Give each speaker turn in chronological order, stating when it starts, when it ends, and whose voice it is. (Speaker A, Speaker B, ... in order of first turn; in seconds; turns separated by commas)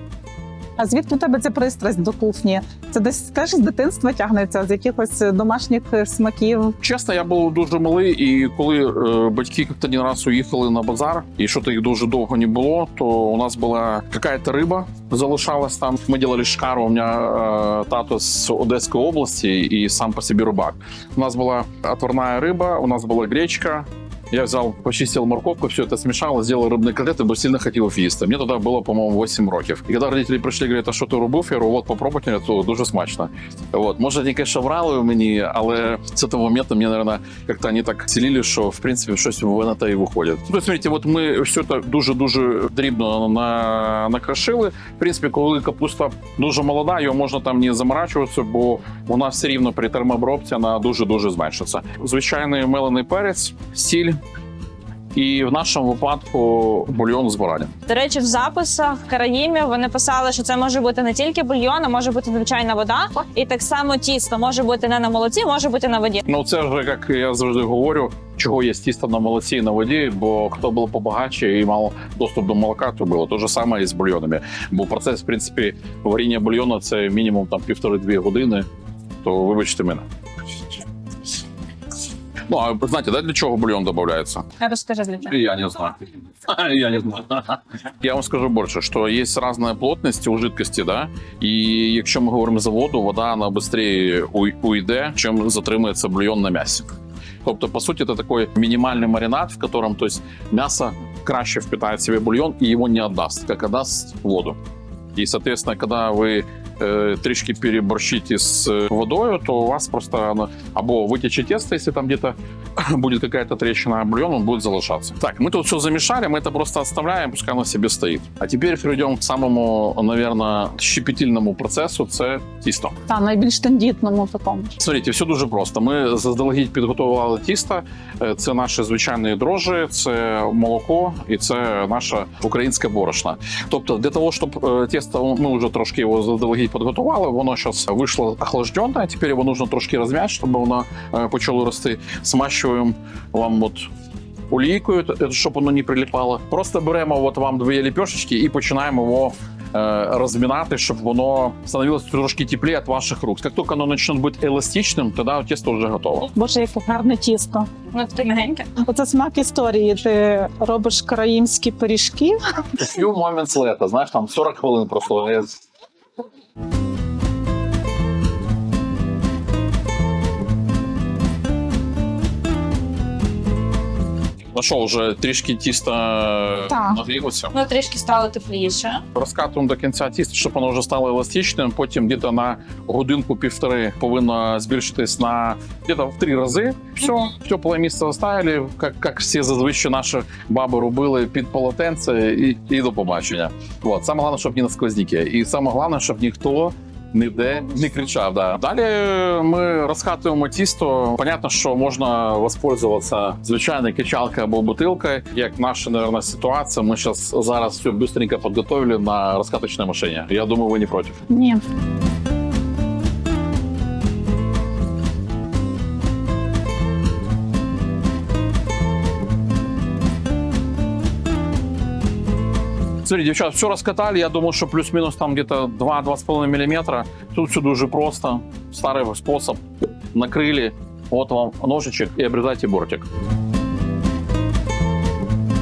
Speaker A: 0.8-6.8, Speaker B: 6.8-54.2, Speaker B: 55.1-57.8, Speaker C: 57.9-66.2, Speaker B: 66.2-78.7, Speaker B: 79.2-80.1, Speaker B: 82.5-84.5, Speaker C: 84.6-85.2, Speaker B: 85.2-96.9, Speaker B: 97.4-104.6, Speaker B: 105.2-123.0, Speaker A: 123.1-124.8, Speaker B: 124.8-143.9, Speaker B: 144.5-156.3, Speaker A: 156.3-157.7, Speaker C: 157.9-158.7, Speaker A: 158.8-162.4, Speaker B: 162.8-165.6, Speaker B: 174.5-177.5, Speaker A: 176.7-177.0, Speaker C: 177.5-179.0, Speaker B: 179.2-211.2, Speaker A: 211.3-211.6, Speaker B: 223.0-229.6, Speaker B: 230.1-233.1